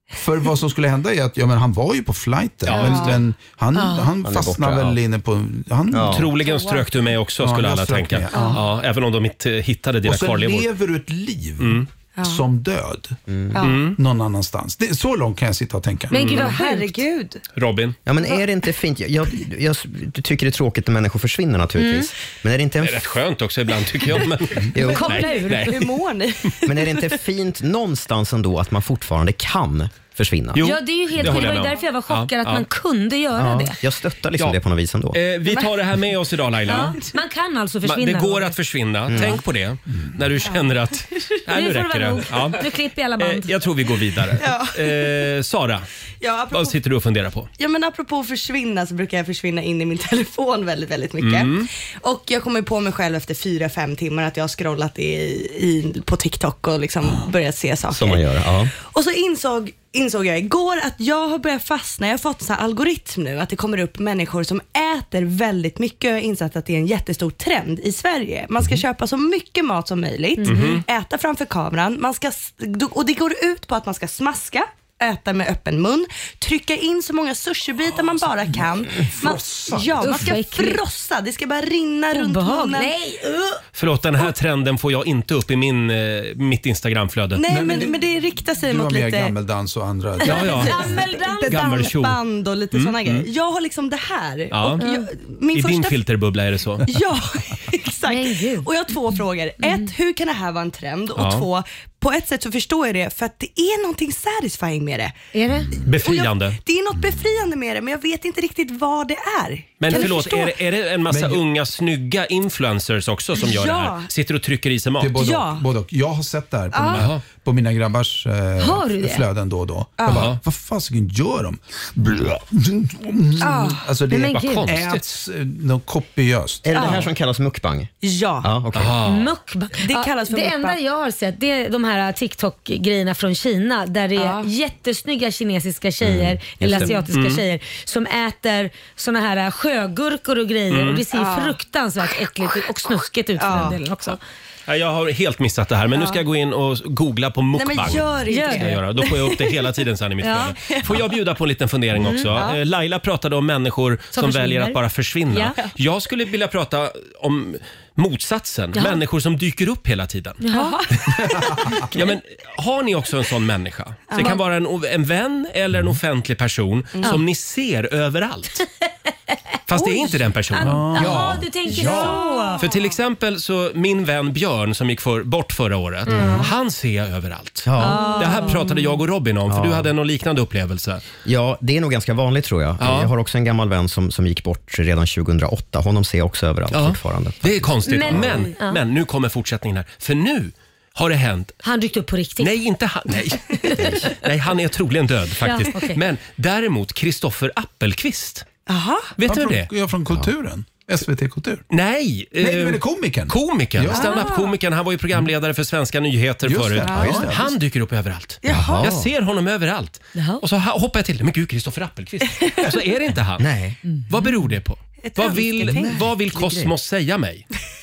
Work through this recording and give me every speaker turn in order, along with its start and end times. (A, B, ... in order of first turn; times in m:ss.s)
0:00.2-0:06.3 A
0:02.6-0:03.1 B
0:02.7-0:03.2 C
0:03.8-0:04.0 D
0:04.2-0:05.0 E
0:05.9-0:06.3 E
0:06.1-0:10.7 B
0:06.5-0:06.8 C
0:07.4-0:08.6 A
0:08.3-0:08.6 C
0:10.0-0:13.2 A
0:11.6-0:11.9 B
0:12.2-0:12.4 C
0:13.3-0:13.6 E
0:13.5-0:13.8 C
0:13.6-0:14.0 B
0:13.9-0:16.3 A
0:16.1-0:17.0 D
0:16.2-0:16.5 B
0:16.2-0:17.4 C
0:17.5-0:18.0 B
0:18.0-0:23.1 E
0:21.8-0:22.1 D
0:22.8-0:25.8 B
0:24.7-0:25.2 E
0:24.8-0:25.8 D
0:25.2-0:27.1 C
0:26.6-0:30.7 E
0:30.5-0:32.6 B
0:30.6-0:33.8 D
0:33.3-0:35.2 E
0:35.1-0:37.0 B
0:36.7-0:37.1 C
0:36.7-0:38.6 D
0:37.8-0:42.6 B
0:39.1-0:39.4 E
0:41.5-0:43.6 D
0:43.2-0:45.8 B
0:44.4-0:45.3 C
0:46.2-0:46.8 C
0:46.5-0:47.5 B
0:47.6-1:22.9 C
0:51.2-0:51.7 B
0:57.9-0:58.7 E
1:10.4-1:10.8 D
1:10.4-1:10.8 B
1:18.5-1:20.4 A
1:20.0-1:20.8 D
1:22.1-1:23.6 D
1:23.8-1:27.4 B
1:27.3-1:29.3 C
1:27.5-1:28.0 A
1:28.6-1:30.9 A
1:30.2-1:30.8 B
1:30.3-1:36.0 C
1:30.3-1:31.9 D
1:31.4-1:32.2 B
1:32.7-1:33.3 B
1:34.5-1:34.8 B
1:34.8-1:35.1 D
1:35.5-1:36.8 B
1:36.8-1:45.2 C
1:38.0-1:38.7 D
1:39.6-1:39.9 D
1:41.2-1:41.4 B
1:45.3-1:45.8 D
1:45.8-1:46.6 B
1:45.9-1:50.5 C
1:49.8-1:55.2 B
1:51.1-1:51.4 A
1:53.4-1:54.1 C
1:55.0-2:07.0 A
1:55.1-1:55.6 C
1:56.7-1:57.1 C
1:56.9-1:57.2 B
1:58.6-1:59.2 D
2:00.0-2:00.3 C
2:00.1-2:00.4 B
2:03.4-2:03.8 C
2:04.1-2:04.7 D
2:04.3-2:05.0 B
2:06.6-2:07.9 E
2:06.7-2:07.1 C
2:08.0-2:08.5 C
2:08.4-2:09.0 E
2:08.7-2:09.3 B
2:09.0-2:24.2 D
2:09.8-2:10.8 C
2:14.2-2:14.5 C
2:16.0-2:17.0 E
2:17.1-2:17.4 B
2:20.7-2:21.0 B
2:21.1-2:21.6 C
2:23.4-2:24.1 C
2:24.7-2:40.4 B
2:25.9-2:26.2 C
2:27.5-2:29.7 C
2:28.3-2:28.8 D
2:30.2-2:30.5 D
2:30.6-2:31.1 C
2:32.0-2:32.4 D
2:32.3-2:32.6 C
2:34.1-2:34.8 D
2:35.3-2:35.6 D
2:38.7-2:39.0 D
2:40.4-2:40.8 D
2:40.5-2:40.9 C
2:41.9-2:48.6 B
2:44.1-2:44.4 C
2:49.7-2:51.4 B
2:50.5-2:52.6 D
2:50.6-2:52.2 A
2:51.1-2:52.7 C
2:52.6-3:01.0 B
2:56.2-2:56.5 A
2:57.6-2:58.1 E
2:57.8-2:58.7 D
2:59.5-2:59.9 E
3:01.2-3:08.3 E
3:02.8-3:03.1 B
3:06.7-3:11.6 B
3:07.8-3:08.8 D
3:11.6-3:12.6 D
3:12.4-3:18.4 B
3:15.4-3:16.0 D
3:18.7-3:19.1 C
3:19.2-3:19.7 B
3:19.2-3:21.6 A
3:21.7-3:33.4 B
3:22.4-3:24.3 A
3:23.9-3:24.5 C
3:26.4-3:27.5 A
3:26.8-3:27.2 C
3:28.4-3:28.9 C
3:28.4-3:29.1 E
3:30.2-3:30.4 D
3:33.4-3:33.8 E
3:34.1-3:37.4 B
3:35.0-3:36.1 C
3:35.7-3:36.7 E